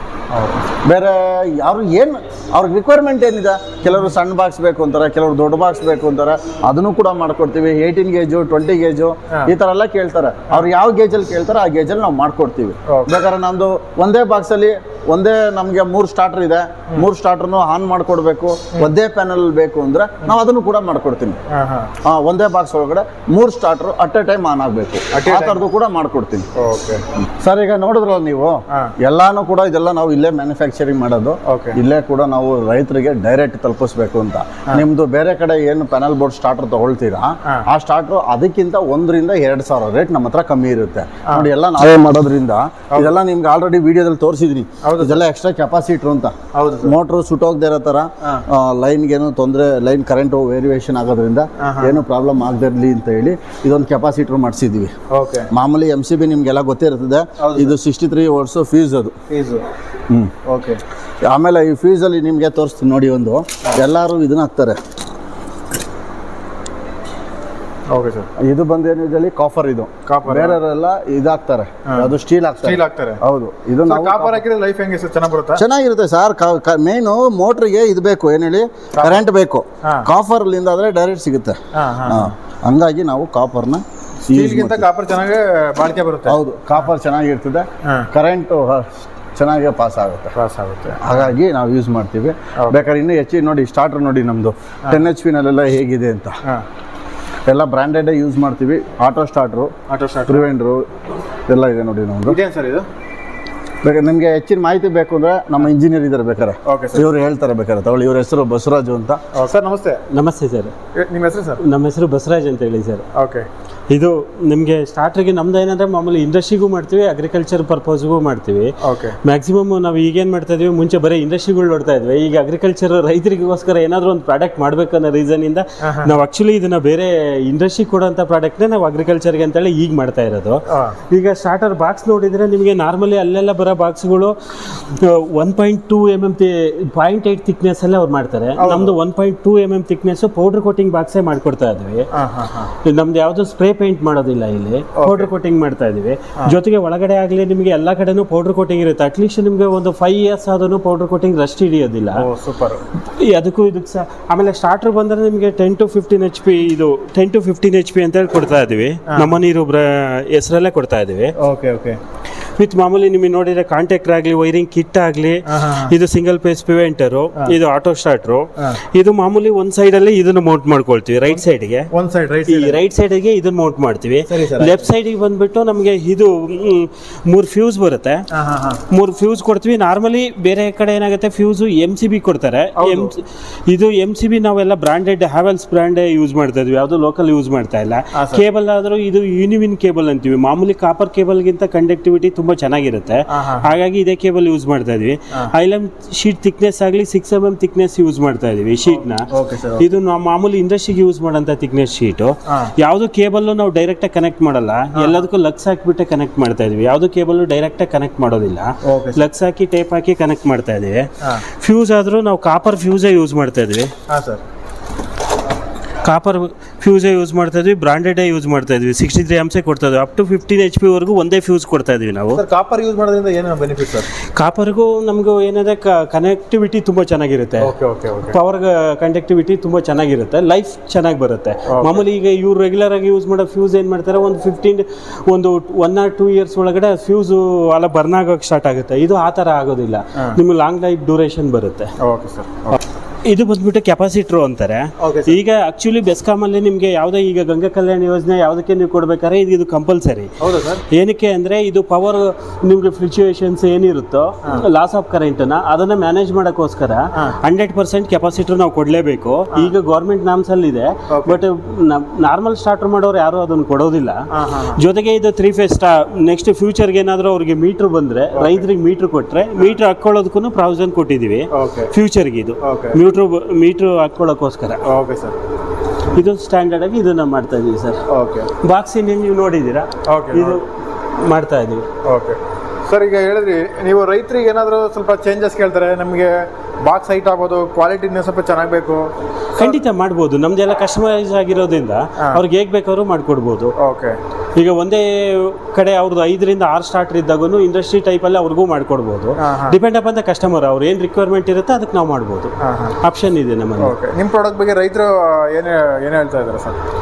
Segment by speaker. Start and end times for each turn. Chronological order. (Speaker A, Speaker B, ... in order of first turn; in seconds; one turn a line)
Speaker A: 0.3-0.6
Speaker B: 0.8-21.4
Speaker A: 12.9-13.1
Speaker A: 21.5-21.9
Speaker B: 22.0-26.5
Speaker A: 25.1-25.6
Speaker A: 26.5-27.0
Speaker B: 27.3-54.9
Speaker A: 31.5-31.8
Speaker A: 44.8-45.2
Speaker A: 46.5-47.0
Speaker A: 51.6-52.0
Speaker A: 55.1-55.5
Speaker B: 55.5-59.1
Speaker A: 57.4-57.8
Speaker A: 59.3-59.6
Speaker A: 60.5-60.8
Speaker B: 61.2-64.8
Speaker A: 67.9-68.3
Speaker B: 68.4-74.4
Speaker A: 70.1-70.6
Speaker A: 71.9-73.2
Speaker A: 73.8-75.6
Speaker B: 75.5-84.9
Speaker A: 79.0-79.2
Speaker A: 81.7-82.3
Speaker A: 84.3-86.4
Speaker B: 86.3-90.3
Speaker A: 87.8-88.1
Speaker A: 90.3-91.3
Speaker B: 91.0-96.4
Speaker A: 92.6-92.9
Speaker B: 97.5-99.7
Speaker A: 99.9-100.5
Speaker B: 100.3-100.8
Speaker B: 101.5-102.4
Speaker A: 102.3-102.9
Speaker B: 103.8-109.2
Speaker A: 106.7-107.0
Speaker A: 109.3-110.0
Speaker C: 110.1-110.7
Speaker A: 111.0-111.6
Speaker C: 111.6-113.1
Speaker A: 113.1-113.5
Speaker C: 113.9-142.1
Speaker A: 118.8-119.2
Speaker A: 125.8-126.2
Speaker A: 130.7-131.0
Speaker A: 138.6-139.0
Speaker A: 142.1-142.7
Speaker C: 142.8-152.3
Speaker A: 144.9-145.3
Speaker A: 152.2-152.8
Speaker C: 153.0-161.3
Speaker A: 159.1-159.4
Speaker A: 161.4-162.0
Speaker C: 162.6-171.9
Speaker A: 165.5-165.9
Speaker A: 171.3-172.8
Speaker C: 172.5-178.2
Speaker A: 174.3-174.9
Speaker A: 178.3-178.8
Speaker C: 178.9-213.9
Speaker A: 182.8-183.1
Speaker A: 188.1-188.4
Speaker A: 193.3-193.7
Speaker A: 198.9-199.9
Speaker A: 204.9-205.2
Speaker A: 208.8-209.2
Speaker A: 214.1-214.4
Speaker C: 216.0-222.4
Speaker A: 222.3-224.1
Speaker C: 224.2-241.9
Speaker A: 227.6-228.4
Speaker A: 231.7-232.1
Speaker A: 242.0-242.8
Speaker C: 243.3-250.3
Speaker A: 245.0-245.4
Speaker A: 250.4-250.8
Speaker C: 250.9-274.8
Speaker A: 261.1-261.4
Speaker A: 264.3-264.8
Speaker A: 268.3-268.7
Speaker A: 271.5-271.9
Speaker A: 272.6-273.0
Speaker A: 274.9-275.4
Speaker C: 276.1-278.0
Speaker A: 278.1-278.5
Speaker C: 278.6-281.9
Speaker A: 280.1-280.6
Speaker A: 282.0-289.8
Speaker C: 289.6-293.8
Speaker A: 293.8-294.2
Speaker C: 294.6-304.0
Speaker A: 299.4-299.8
Speaker A: 302.6-303.0
Speaker A: 303.8-306.8